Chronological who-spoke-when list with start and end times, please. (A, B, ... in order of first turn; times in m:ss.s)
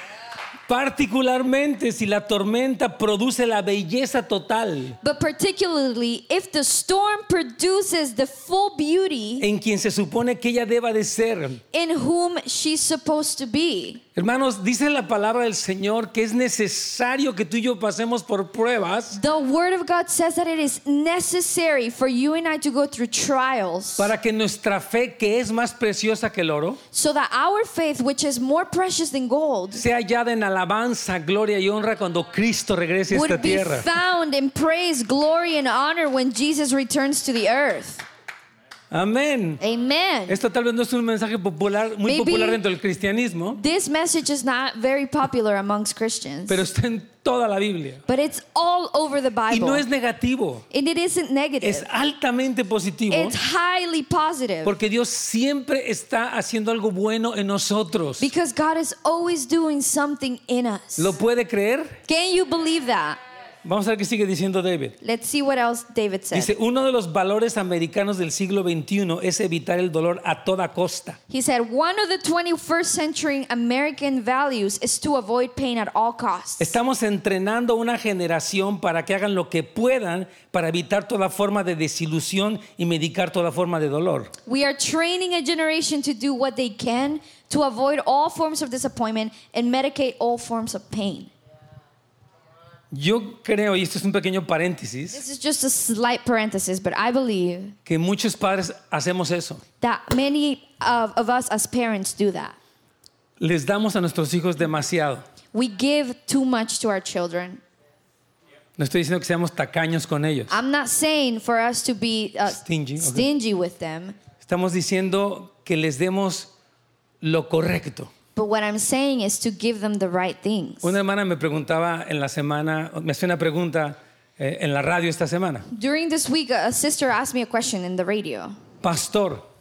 0:00.7-0:05.0 A
0:05.0-0:09.4 B
0:09.4-0:11.6 A
0:11.7-0:14.0 B
0:14.2-0:19.2 A
0:19.1-0:24.1 B
0:24.0-0:26.8 A
0:26.9-0:29.8 B
0:29.7-0:33.9 A
0:33.1-0:38.0 B
0:38.9-0:39.6 A
0:39.6-0:40.4 B
0:40.3-0:43.6 A
0:42.0-0:42.6 B
0:43.5-0:46.6 B
0:46.5-0:48.0 A
0:48.1-0:49.8 B
0:49.5-0:50.6 A
0:50.7-0:51.9 B
0:51.6-0:53.4 A
0:53.1-0:54.7 B
0:54.6-0:58.3 A
0:58.2-1:01.2 B
1:01.0-1:02.0 A
1:02.1-1:03.2 B
1:03.6-1:05.0 A
1:05.0-1:06.5 B
1:06.3-1:11.2 A
1:11.3-1:16.7 B
1:16.6-1:24.3 A
1:24.4-1:31.3 B
1:32.9-1:35.2 A
1:35.1-1:37.8 B
1:37.8-1:39.6 A
1:39.8-1:42.6 B
1:43.4-1:45.2 A
1:45.5-1:47.6 B
1:48.8-1:50.5 A
1:50.5-1:54.2 B
1:52.5-1:53.3 A
1:54.4-1:56.5 A
1:57.2-1:58.1 A
1:58.3-2:00.9 B
2:00.8-2:05.7 A
2:05.7-2:08.6 B
2:08.8-2:09.4 A